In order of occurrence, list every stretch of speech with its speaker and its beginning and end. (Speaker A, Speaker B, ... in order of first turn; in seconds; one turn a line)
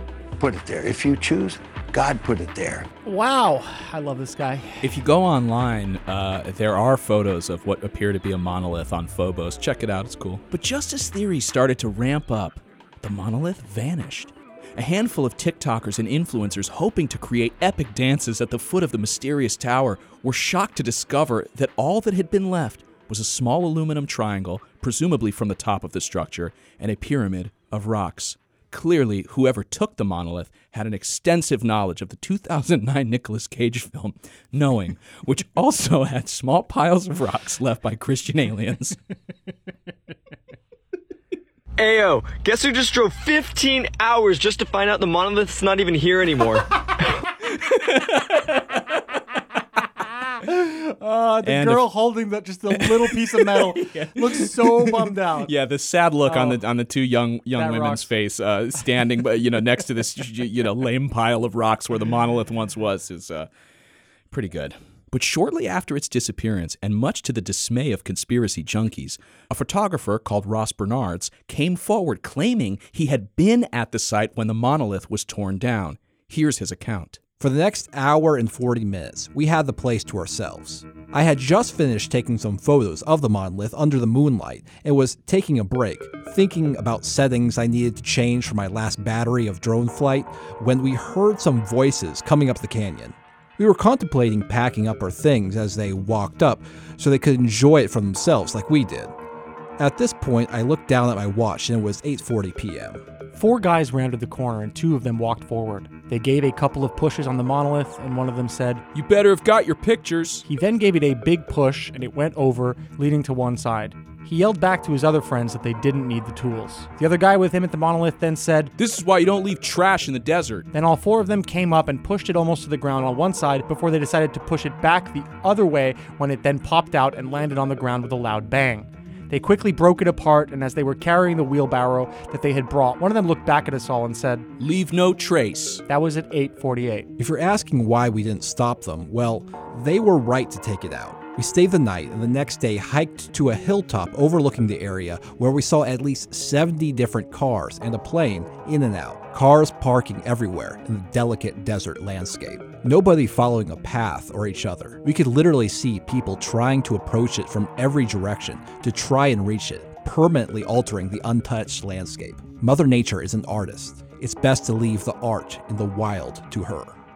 Speaker A: 0.4-2.9
Speaker B: 3.0-4.9
Speaker C: 4.8-39.0
Speaker D: 41.8-46.8
Speaker C: 47.8-48.4
Speaker B: 50.5-55.5
Speaker C: 51.4-51.9
Speaker C: 53.1-63.5
Speaker B: 56.2-56.6
Speaker B: 57.5-58.1
Speaker C: 64.3-77.2
Speaker E: 77.4-99.1
Speaker E: 99.8-103.0
Speaker B: 103.3-108.8
Speaker C: 108.9-110.5
Speaker B: 110.5-118.7
Speaker C: 118.8-120.7
Speaker B: 120.7-134.5
Speaker C: 134.6-135.8
Speaker B: 135.9-137.1
Speaker E: 137.2-167.0